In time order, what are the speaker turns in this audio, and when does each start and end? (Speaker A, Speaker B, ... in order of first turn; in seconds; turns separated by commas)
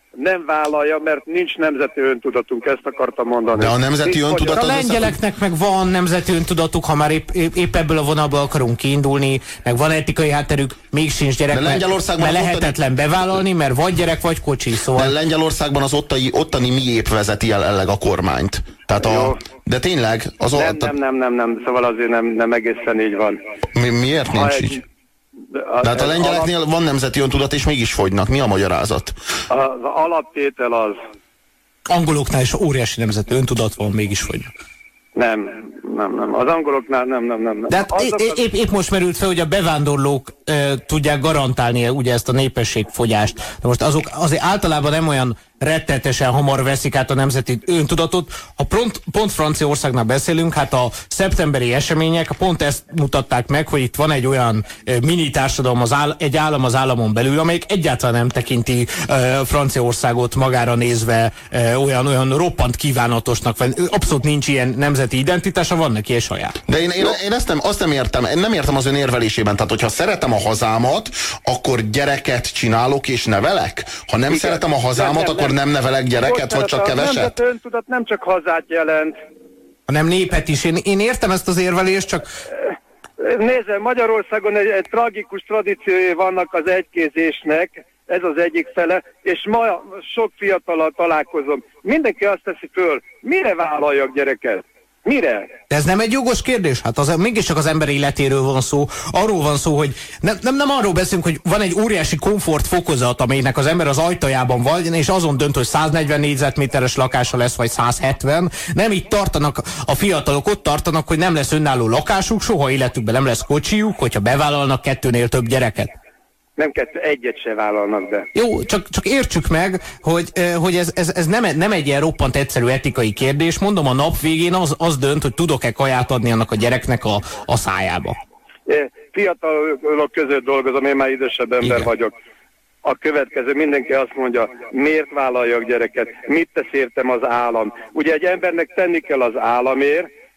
Speaker A: 0.2-4.6, Speaker B: 3.5-5.2, Speaker C: 4.5-15.1, Speaker B: 11.5-12.8, Speaker B: 14.9-20.9, Speaker A: 19.0-19.4, Speaker A: 20.5-23.4, Speaker B: 23.7-24.8, Speaker A: 24.4-24.7, Speaker A: 25.5-26.5, Speaker B: 25.8-29.1, Speaker A: 29.5-31.0, Speaker C: 31.9-34.5, Speaker A: 35.1-38.4, Speaker C: 37.7-66.5, Speaker B: 66.7-77.3, Speaker A: 74.3-75.5, Speaker A: 76.2-79.2, Speaker C: 79.9-82.3, Speaker A: 82.6-95.5, Speaker C: 95.7-115.9, Speaker A: 116.6-118.3, Speaker C: 118.3-128.2, Speaker A: 128.7-132.1, Speaker A: 132.8-140.1